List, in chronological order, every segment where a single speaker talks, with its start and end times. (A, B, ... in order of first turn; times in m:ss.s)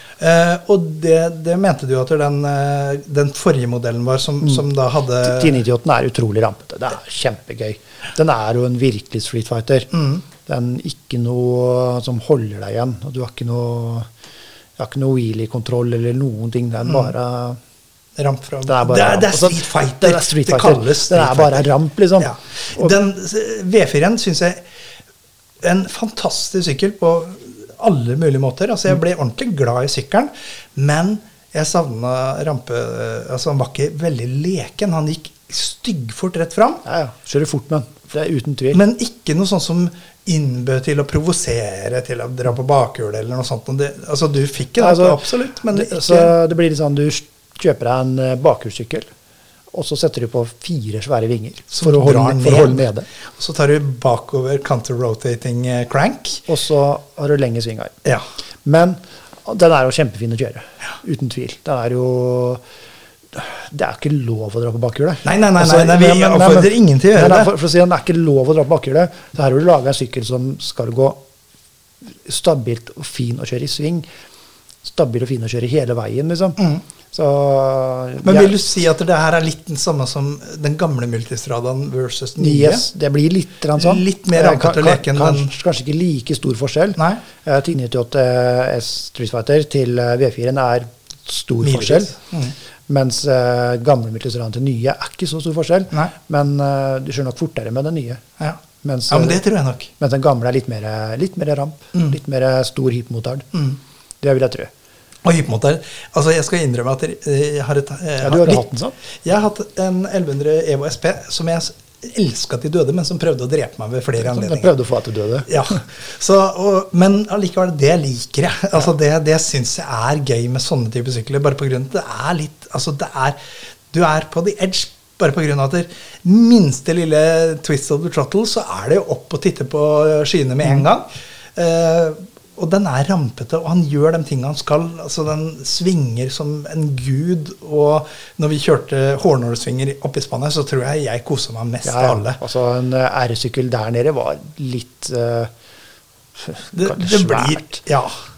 0:00.2-0:05.6 A
0:05.2-0:14.1 B
0:09.9-0:10.2 A
0:14.8-0:17.6 B
0:18.2-0:24.6 A
0:18.7-0:22.9 B
0:25.6-0:36.8 A
0:36.8-0:38.8 B
0:38.7-0:46.3 A
0:44.8-0:49.1 B
0:49.7-0:53.1 B
0:51.7-0:56.5 A
0:56.5-0:58.0 B
0:58.6-1:02.6 B
1:03.3-1:11.2 B
1:05.2-1:07.5 A
1:12.0-1:14.1 B
1:14.8-1:18.6 B
1:18.2-1:22.9 A
1:22.4-1:32.2 B
1:23.8-1:25.5 A
1:27.0-1:27.2 A
1:31.6-1:32.5 A
1:32.9-1:38.2 B
1:38.4-1:39.9 A
1:38.8-1:43.5 B
1:44.2-1:44.7 B
1:45.2-1:48.7 A
1:48.2-1:49.0 B
1:49.2-1:54.7 A
1:54.2-1:55.8 B
1:55.5-2:03.4 A
2:03.9-2:22.4 A
2:21.8-2:25.5 B
2:26.4-2:27.8 B
2:26.7-2:28.2 A